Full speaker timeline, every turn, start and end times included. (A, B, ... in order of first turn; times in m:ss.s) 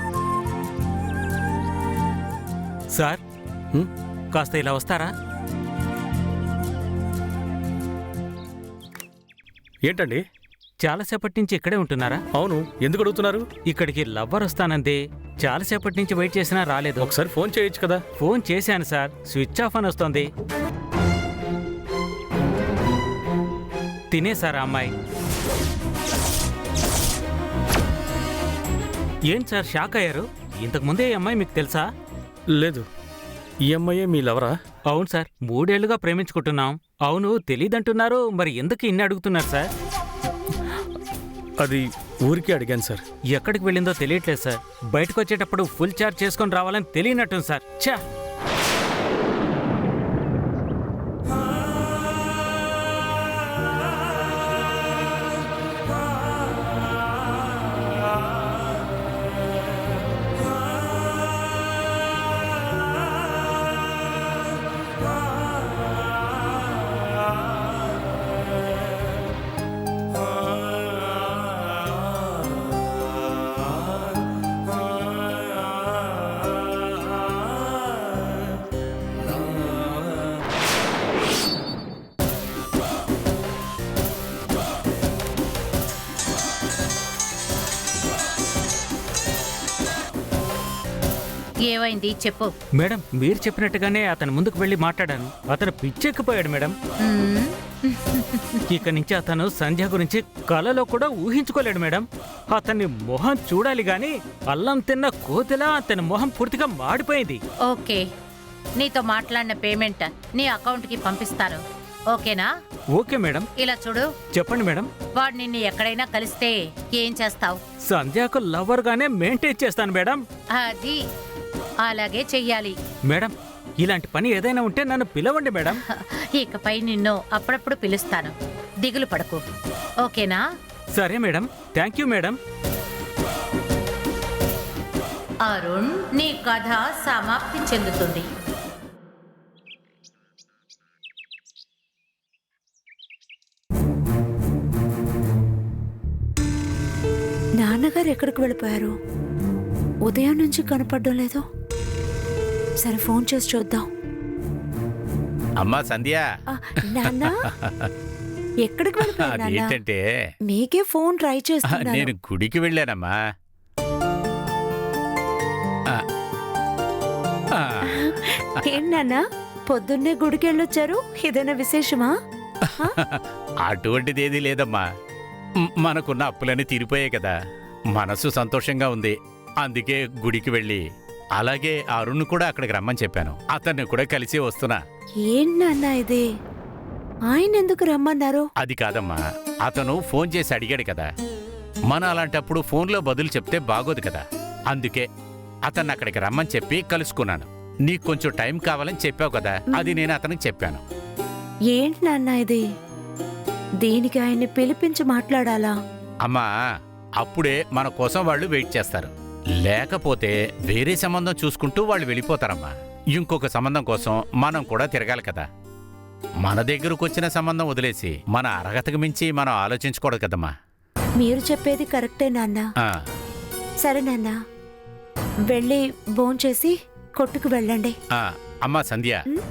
0:02.9-0:03.2 A
0:04.3-0:05.1 A
0:09.8-0:10.2 B
0:10.8-0:12.2 A
0:12.3-0:13.6 B
0:13.6-0:17.0 A
0:17.0-0:18.1 B
0:18.2-0:20.3 A
0:24.1-0:24.9 A
0:29.3-0:31.9 A
0:32.5-0:32.8 B
0:33.7-0:34.6 B
0:34.9-0:39.7 A
0:41.6-0:43.0 B
0:43.3-0:48.0 A
1:31.6-1:32.5 C
1:32.8-1:36.8 A
1:37.0-1:38.6 C
1:38.7-1:47.4 A
1:47.7-1:48.0 C
1:48.8-1:52.5 C
1:52.9-1:53.5 A
1:53.6-1:54.1 C
1:54.3-1:54.9 A
1:55.2-1:57.6 C
1:57.8-2:00.2 A
2:00.5-2:01.0 C
2:01.8-2:02.8 C
2:03.1-2:05.8 A
2:05.7-2:09.4 C
2:10.0-2:10.4 C
2:10.9-2:12.4 A
2:15.4-2:18.2 C
2:27.6-2:28.9 D
2:30.0-2:31.4 D
2:32.8-2:33.8 D
2:35.6-2:36.2 E
2:36.6-2:37.3 D
2:38.6-2:39.8 D
2:39.1-2:40.0 E
2:40.5-2:42.1 D
2:41.7-2:43.2 E
2:47.5-2:47.9 E
2:47.9-2:52.1 D
2:52.6-2:54.9 E
2:55.6-2:57.3 E
2:57.9-3:00.8 E
3:01.4-3:04.8 E
3:05.3-3:06.2 D
3:07.3-3:08.5 D
3:08.6-3:11.1 E
3:11.9-3:15.1 E
3:15.7-3:20.8 E
3:19.8-3:20.0 D
3:21.7-3:22.6 D
3:23.8-3:25.7 D
3:27.2-3:29.1 E
3:29.6-3:35.4 E
3:36.4-3:40.5 E
3:41.2-3:42.6 D
3:43.8-3:44.3 D
3:45.5-3:47.9 D
3:48.2-3:49.2 E